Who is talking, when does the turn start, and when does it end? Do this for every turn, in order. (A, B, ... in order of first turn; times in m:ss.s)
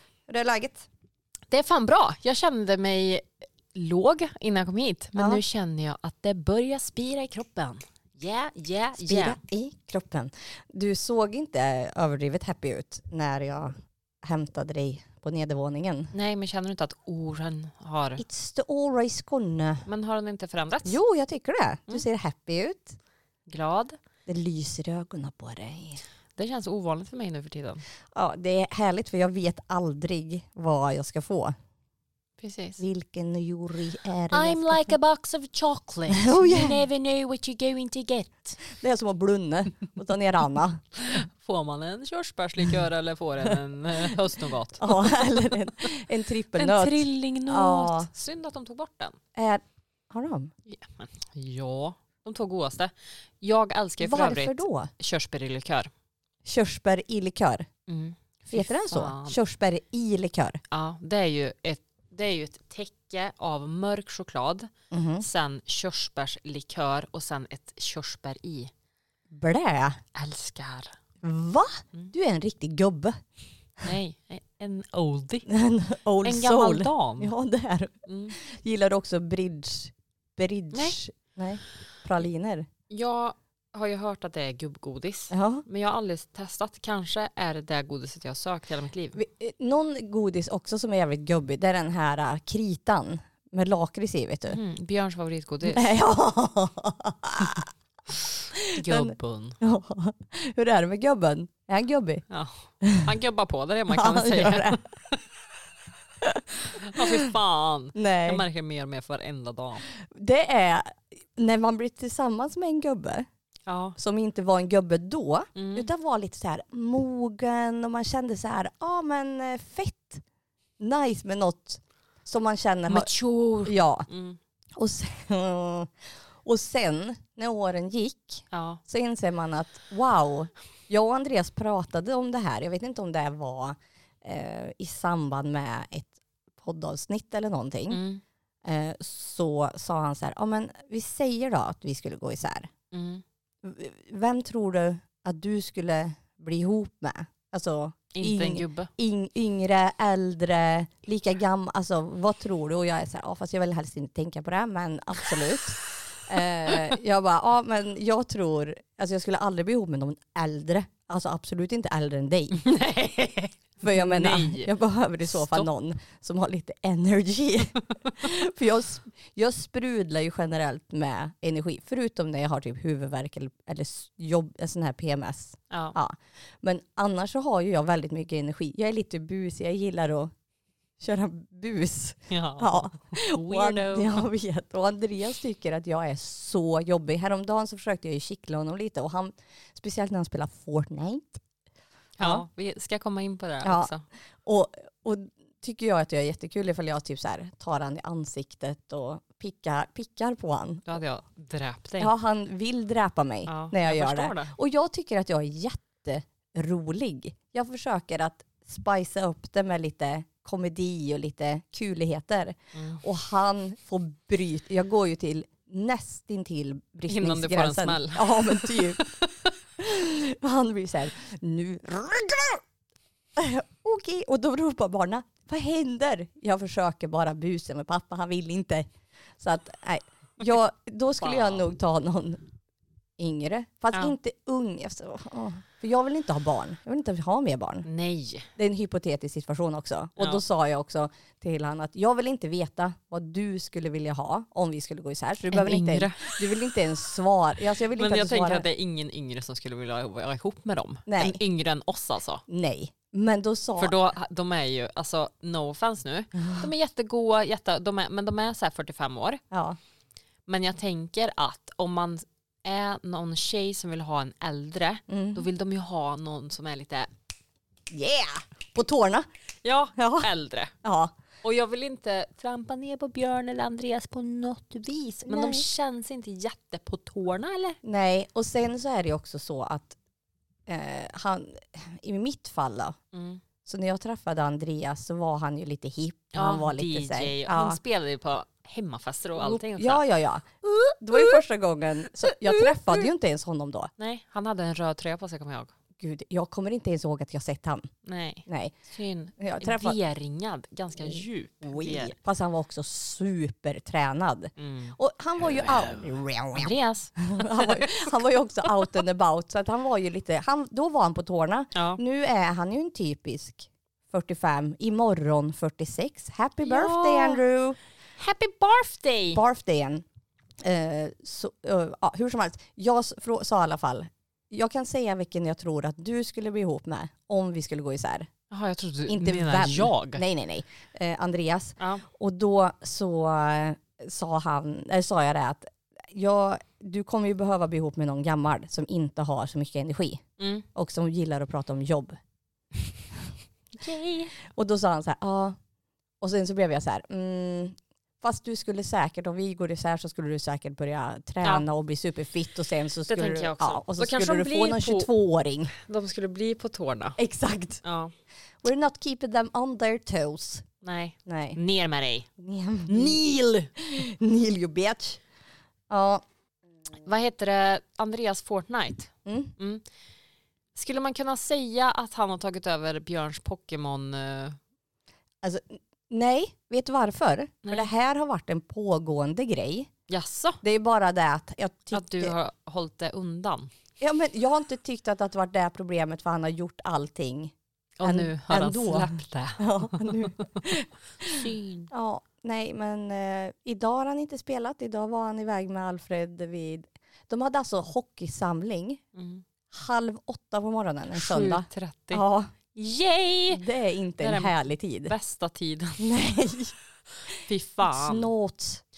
0:00.3-0:00.9 A
0:01.5-0:09.4 B
0:05.2-0:05.4 A
0:09.0-0:16.1 A
0:16.1-0:18.2 B
0:18.2-0:19.8 A
0:19.8-0:21.0 B
0:20.8-0:23.0 A
0:23.5-0:24.0 B
0:24.3-0:26.0 A
0:26.4-0:27.8 B
0:28.1-0:31.5 A
0:32.4-0:32.8 B
0:32.8-0:35.0 A
0:34.3-0:38.6 B
0:36.2-0:36.8 A
0:38.7-0:40.8 A
0:41.0-0:45.2 B
0:44.8-0:48.1 A
0:46.6-0:49.2 B
0:49.3-0:50.5 A
0:50.7-0:55.9 B
0:54.0-0:54.9 A
0:56.4-0:57.7 A
0:57.9-0:59.4 B
0:58.4-1:00.6 A
1:00.7-1:08.7 B
1:04.9-1:05.2 A
1:09.3-1:10.0 A
1:10.1-1:11.0 B
1:11.2-1:13.2 A
1:13.8-1:15.5 B
1:15.5-1:22.7 A
1:16.2-1:17.3 B
1:18.0-1:18.4 B
1:22.9-1:29.2 B
1:25.3-1:25.6 A
1:29.2-1:34.6 A
1:34.5-1:35.9 B
1:35.6-1:37.7 A
1:38.5-1:42.2 A
1:38.7-1:39.6 B
1:42.3-1:44.8 B
1:43.9-1:44.8 A
1:46.2-1:47.3 A
1:46.6-1:49.8 B
1:47.9-1:48.4 A
1:49.9-1:53.3 A
1:53.7-1:54.0 B
1:54.0-2:00.2 A
1:55.5-1:55.9 B
2:00.8-2:03.1 A
2:02.9-2:04.4 B
2:03.6-2:04.1 A
2:04.7-2:18.0 A
2:08.5-2:08.8 B
2:17.9-2:18.2 B
2:18.6-2:22.7 A
2:22.9-2:23.2 B
2:23.6-2:42.6 A
2:28.1-2:28.9 B
2:42.5-2:45.7 B
2:43.8-3:00.3 A
2:55.7-2:56.0 B
3:01.0-3:11.4 A
3:02.3-3:04.3 B
3:12.2-3:14.0 B
3:13.6-3:13.9 A
3:14.4-3:20.9 A
3:20.8-3:22.1 B
3:22.0-3:39.1 A
3:23.5-3:24.5 B
3:32.7-3:33.0 B
3:37.1-3:39.3 B
3:39.8-3:42.6 A
3:43.4-3:48.9 A
3:49.4-3:52.4 A
3:51.2-3:51.6 B
3:53.2-3:57.8 A
3:57.8-3:58.5 B
3:58.6-4:08.6 A
4:05.5-4:06.4 B
4:08.0-4:12.4 B
4:11.0-4:11.4 A
4:12.5-4:13.9 A
4:13.8-4:19.4 B
4:16.4-4:16.7 A
4:19.5-4:19.8 A
4:20.5-4:27.1 B
4:25.1-4:25.4 A
4:27.9-4:29.3 A
4:29.6-4:30.7 B
4:30.0-4:30.3 A
4:30.8-4:31.1 A
4:31.4-4:37.8 B
4:35.3-4:35.6 A
4:37.8-4:40.0 A
4:40.7-4:43.0 A
4:43.1-4:43.4 B
4:43.6-4:47.8 A
4:46.3-4:50.0 B
4:49.4-4:53.9 A
4:50.8-4:51.4 B
4:52.2-4:53.0 B
4:54.0-4:55.7 B
4:56.0-4:57.9 A
4:58.0-5:02.1 B
4:58.4-4:58.7 A
4:59.4-5:00.0 A
5:01.6-5:17.8 A
5:04.6-5:05.0 B
5:06.5-5:08.2 B
5:11.7-5:12.0 B
5:16.6-5:17.4 B
5:18.2-5:19.4 B
5:19.3-5:20.0 A
5:20.6-5:28.3 A
5:28.5-5:30.2 B
5:29.1-5:40.2 A
5:31.8-5:32.0 B
5:40.4-5:40.6 B
5:40.7-5:42.2 A
5:43.8-5:44.3 B
5:44.5-5:45.6 A
5:46.2-5:55.7 A
5:53.1-5:55.1 B
5:55.7-5:57.2 B
5:57.2-5:57.8 A
5:57.8-5:58.1 B
5:58.6-6:00.6 A
6:00.8-6:02.3 B
6:01.2-6:01.6 A
6:02.4-6:03.2 A
6:02.8-6:03.7 B
6:03.8-6:05.2 A
6:05.9-6:06.2 A
6:07.0-6:09.8 B
6:09.2-6:09.5 A
6:10.7-6:14.6 B
6:15.4-6:19.9 A
6:20.1-6:20.6 B
6:20.6-6:22.4 A
6:21.9-6:23.7 B
6:24.0-6:39.0 A
6:28.0-6:30.7 B
6:31.2-6:31.9 B
6:39.1-6:39.4 B
6:39.7-6:42.5 A
6:41.1-6:43.6 B
6:43.5-6:45.1 A
6:44.2-6:46.1 B
6:46.0-6:46.7 A
6:47.4-6:48.8 A
6:47.4-6:48.3 B